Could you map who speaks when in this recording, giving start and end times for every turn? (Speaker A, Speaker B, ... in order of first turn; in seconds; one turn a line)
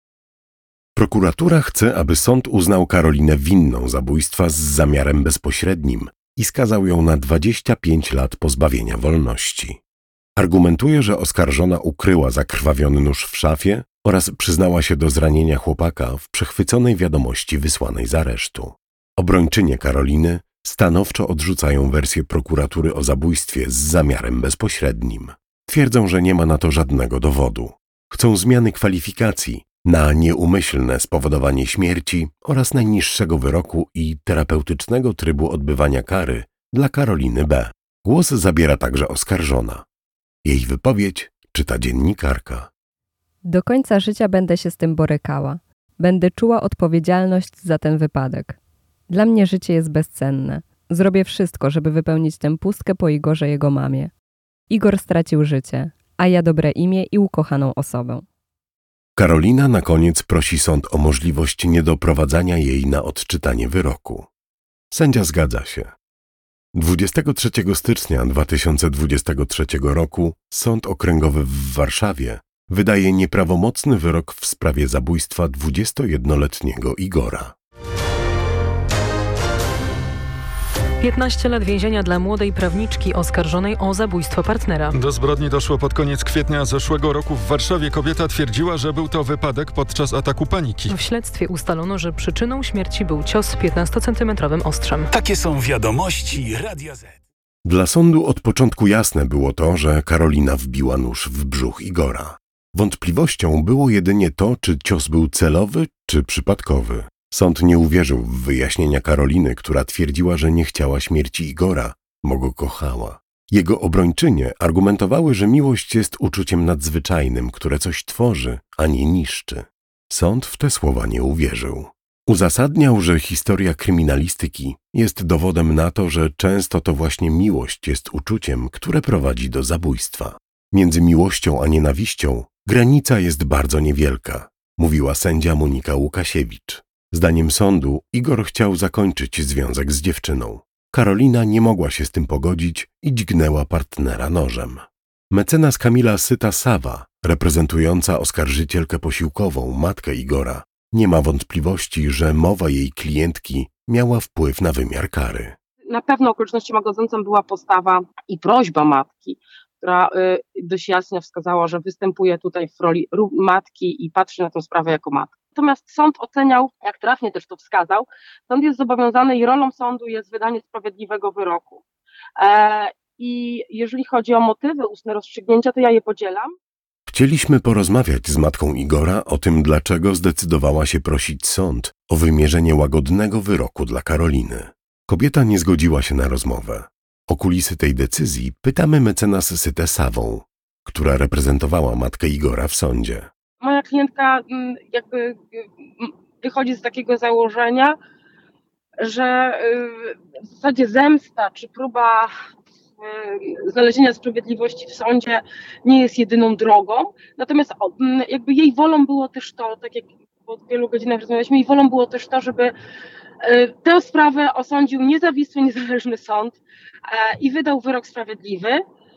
Speaker A: 1.0-9.8
Speaker A: 10.4-39.9
Speaker A: 40.5-42.7
Speaker B: 43.5-48.6
Speaker B: 49.1-54.1
Speaker B: 54.7-58.2
Speaker A: 59.2-64.3
Speaker A: 64.9-65.9
Speaker A: 66.8-77.5
Speaker C: 81.0-85.0
Speaker D: 84.9-91.0
Speaker C: 90.9-95.1
Speaker E: 95.1-97.2
Speaker A: 97.7-155.6
Speaker F: 155.9-171.8
Speaker F: 172.4-176.5
Speaker A: 177.1-193.3
Speaker F: 193.6-198.0
Speaker F: 199.0-202.3
Speaker F: 203.0-212.7
Speaker F: 213.4-218.8